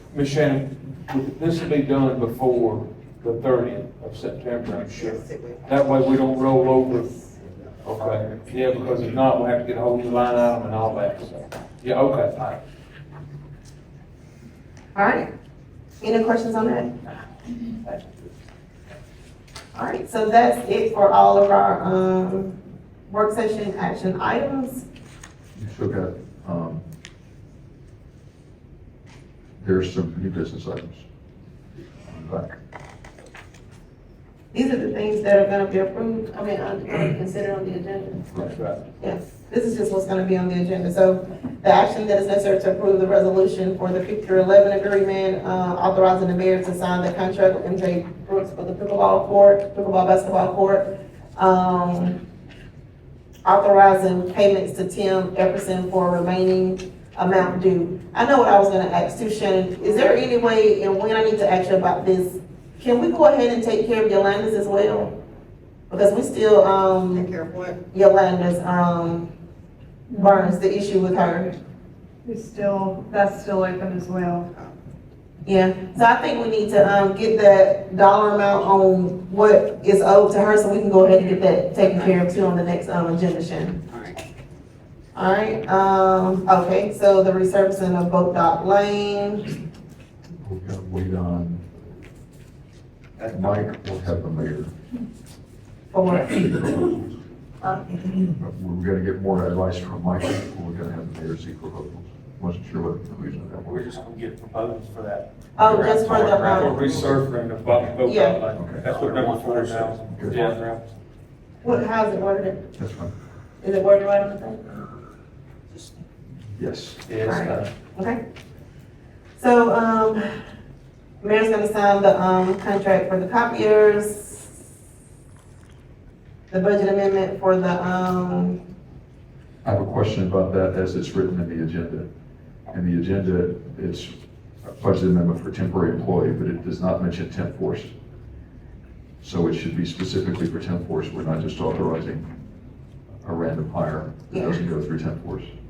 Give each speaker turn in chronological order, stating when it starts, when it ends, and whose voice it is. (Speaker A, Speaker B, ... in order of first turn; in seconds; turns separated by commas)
Speaker A: 0.1-7.2, Speaker B: 4.9-5.8, Speaker A: 7.8-12.6, Speaker C: 14.9-15.3, Speaker C: 16.0-16.9, Speaker C: 19.7-22.6, Speaker C: 23.1-24.9, Speaker D: 25.6-26.8, Speaker D: 29.6-31.0, Speaker D: 32.1-32.5, Speaker C: 34.5-52.2, Speaker D: 38.3-38.5, Speaker A: 38.4-38.8, Speaker C: 53.4-65.2, Speaker C: 65.9-67.3, Speaker B: 67.1-67.8, Speaker C: 67.9-69.3, Speaker C: 70.1-71.6, Speaker E: 70.1-70.5, Speaker E: 72.2-74.5, Speaker B: 74.5-74.8, Speaker C: 75.4-83.8, Speaker B: 81.8-82.2, Speaker B: 83.9-84.2, Speaker C: 85.1-89.5, Speaker D: 90.4-91.6, Speaker F: 93.2-93.6, Speaker D: 93.3-94.7, Speaker C: 95.9-96.4, Speaker D: 96.2-97.0, Speaker D: 98.3-103.8, Speaker F: 103.7-106.6, Speaker C: 105.5-106.8, Speaker D: 105.6-107.2, Speaker A: 106.3-110.7, Speaker C: 108.0-108.4, Speaker D: 108.5-108.8, Speaker F: 108.7-110.8, Speaker D: 110.1-110.4, Speaker C: 111.6-112.7, Speaker D: 112.8-113.1, Speaker C: 113.6-114.9, Speaker B: 115.7-116.0, Speaker D: 116.5-117.0, Speaker A: 117.0-117.7, Speaker C: 117.2-118.2, Speaker C: 119.4-120.4, Speaker C: 121.2-124.5, Speaker C: 126.5-128.6, Speaker D: 129.6-132.1, Speaker D: 132.7-134.1, Speaker D: 134.7-137.9, Speaker D: 139.2-142.3, Speaker D: 143.2-145.5, Speaker C: 144.3-144.6